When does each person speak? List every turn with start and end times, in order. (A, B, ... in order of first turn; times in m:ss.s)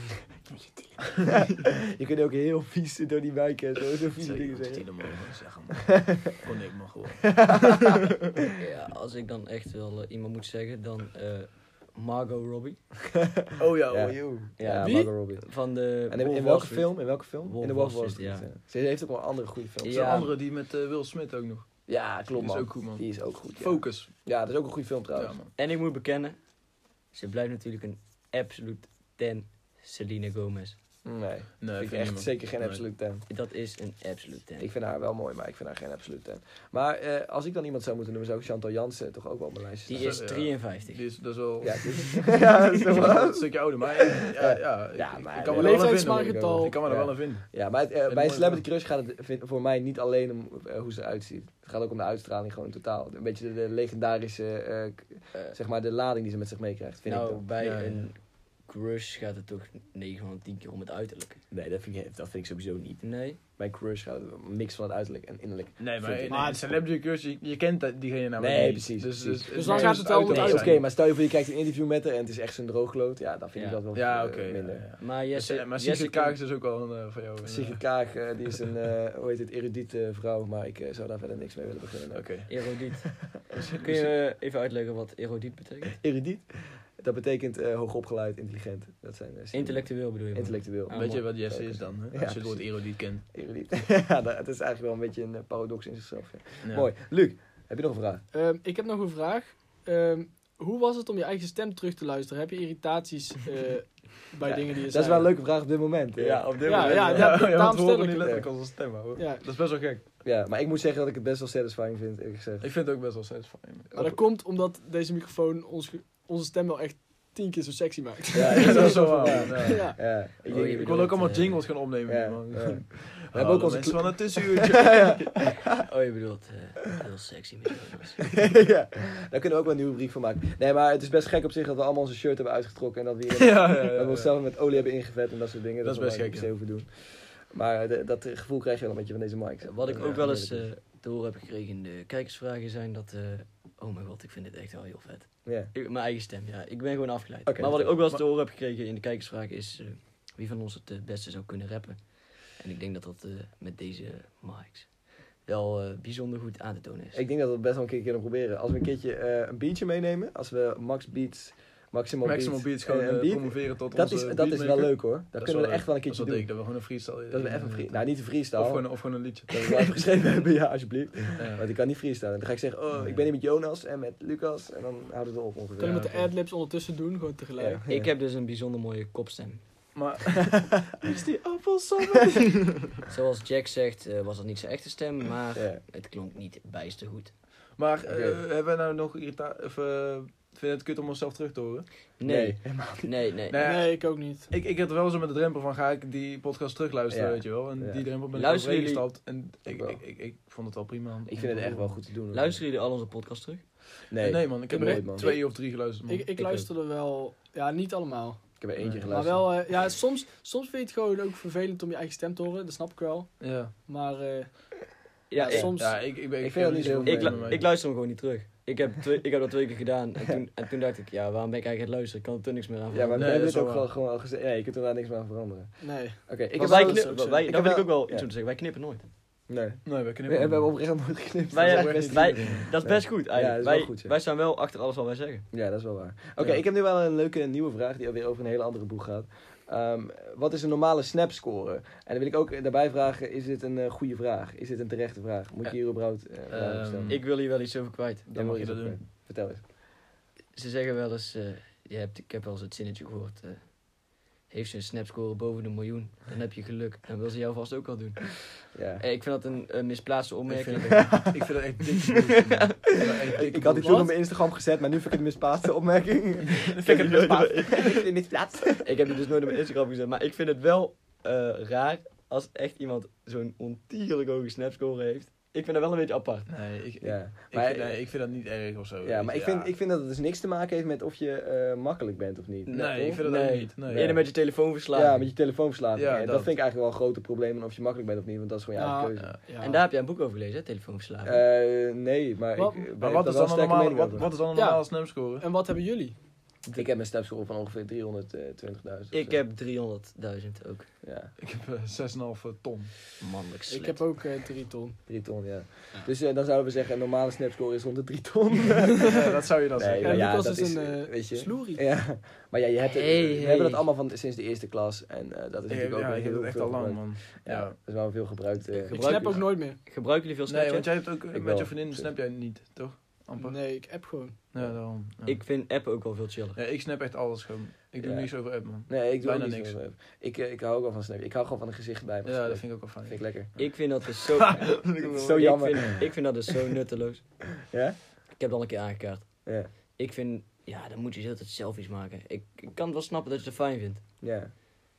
0:01.2-0:04.8 A
0:04.2-0:08.0 B
0:05.9-0:06.3 A
0:07.3-0:08.0 A
0:08.6-0:12.8 C
0:13.4-0:15.5 A
0:13.6-0:14.5 B
0:14.8-0:15.1 D
0:15.4-0:18.4 C
0:16.1-0:20.3 A
0:19.8-0:20.3 C
0:19.9-0:21.7 B
0:21.9-0:25.4 A
0:22.3-0:24.1 B
0:25.1-0:25.5 B
0:25.6-0:26.4 C
0:27.1-0:30.8 C
0:31.0-0:33.2 A
0:31.6-0:32.8 B
0:33.3-0:34.7 C
0:34.6-0:40.2 A
0:39.8-0:41.0 C
0:39.9-0:48.6 B
0:41.6-0:57.4 A
0:45.5-0:46.8 D
0:57.0-1:01.4 C
0:57.6-0:58.1 B
1:01.5-1:03.0 A
1:03.0-1:03.4 C
1:03.6-1:06.5 A
1:05.8-1:10.8 B
1:06.3-1:06.7 D
1:08.4-1:14.9 A
1:09.5-1:10.8 D
1:13.5-1:13.8 C
1:13.9-1:17.8 B
1:15.0-1:16.4 C
1:17.4-1:22.5 A
1:22.1-1:22.5 B
1:22.5-1:26.0 C
1:23.5-1:24.1 B
1:26.0-1:26.5 A
1:27.0-1:38.2 A
1:29.5-1:31.3 C
1:30.9-1:33.2 B
1:36.6-1:36.9 B
1:38.3-1:45.4 D
1:44.4-1:47.3 A
1:46.2-1:47.3 C
1:46.2-1:50.0 B
1:46.6-1:48.4 D
1:48.2-1:48.5 A
1:49.2-1:49.4 D
1:50.2-1:52.7 A
1:52.6-1:53.9 B
1:53.9-1:54.2 A
1:53.9-2:00.0 D
1:58.3-2:01.1 A
1:58.4-2:05.3 B
2:00.4-2:01.6 C
2:02.0-2:05.5 A
2:05.7-2:08.3 C
2:08.3-2:20.7 A
2:13.3-2:14.3 B
2:15.8-2:16.5 B
2:19.6-2:37.2 C
2:19.9-2:20.2 B
2:25.4-2:25.7 A
2:27.4-2:27.9 A
2:37.1-2:56.2 A
2:42.2-2:49.9 B
2:51.4-2:51.6 B
2:55.8-2:57.8 D
2:57.6-2:58.1 A
2:57.9-2:59.6 C
2:59.9-3:02.9 B
3:03.1-3:07.3 C
3:05.5-3:05.8 A
3:07.8-3:11.9 B
3:08.0-3:08.4 A
3:12.2-3:13.6 C
3:12.2-3:13.1 A
3:13.5-3:21.9 B
3:13.6-3:14.5 D
3:17.1-3:18.0 A
3:18.3-3:19.0 C
3:19.7-3:20.0 A
3:21.3-3:22.6 A
3:22.3-3:23.6 C
3:24.1-3:25.3 A
3:24.2-3:26.3 B
3:24.7-3:28.5 D
3:26.4-3:26.6 A
3:28.6-3:29.5 A
3:28.8-3:29.1 B
3:29.1-3:36.0 D
3:33.4-3:33.7 B
3:35.3-3:35.8 C
3:35.5-3:37.6 A
3:35.7-3:37.6 B
3:37.0-3:43.4 C
3:42.9-3:48.3 A
3:43.1-3:43.8 B
3:45.8-3:46.3 D
3:46.6-3:49.1 C
3:46.6-3:47.2 B
3:49.5-3:54.1 A
3:49.8-3:50.7 B
3:51.5-3:55.5 C
3:51.5-3:52.7 B
3:55.5-4:07.2 A
4:06.5-4:07.3 B
4:07.1-4:08.3 C
4:08.3-4:09.0 B
4:08.3-4:09.6 A
4:10.5-4:13.8 C
4:14.4-4:21.3 C
4:18.7-4:19.0 A
4:20.5-4:24.1 B
4:20.9-4:21.5 A
4:22.5-4:22.8 C
4:23.3-4:28.8 A
4:23.8-4:24.1 D
4:26.5-4:28.0 B
4:26.8-4:28.0 C
4:28.8-4:36.5 C
4:36.5-4:39.7 B
4:37.0-4:37.9 A
4:39.0-4:44.3 A
4:42.6-4:45.3 C
4:42.7-4:44.2 B
4:44.9-4:49.3 A
4:45.9-4:46.5 B
4:48.8-4:49.8 D
4:49.6-4:51.4 C
4:51.2-4:54.3 A
4:52.6-4:52.8 D
4:53.0-4:55.4 B
4:54.5-4:56.2 D
4:56.7-4:59.4 A
4:59.1-5:00.9 C
5:01.0-5:01.3 A
5:01.4-5:03.0 B
5:03.2-5:04.0 C
5:03.7-5:05.0 D
5:05.1-5:19.4 A
5:09.0-5:10.4 B
5:10.0-5:11.8 D
5:12.8-5:13.9 C
5:15.7-5:17.8 B
5:18.7-5:20.9 C
5:18.9-5:19.8 D
5:20.5-5:25.4 B
5:21.3-5:22.1 A
5:23.4-5:24.4 D
5:25.2-5:26.6 C
5:26.5-5:29.8 B
5:28.0-5:33.5 A
5:32.2-5:33.7 B
5:33.6-5:37.5 C
5:34.4-5:35.6 B
5:35.0-5:36.1 A
5:37.7-5:38.0 A
5:38.4-5:44.0 C
5:44.2-5:44.7 A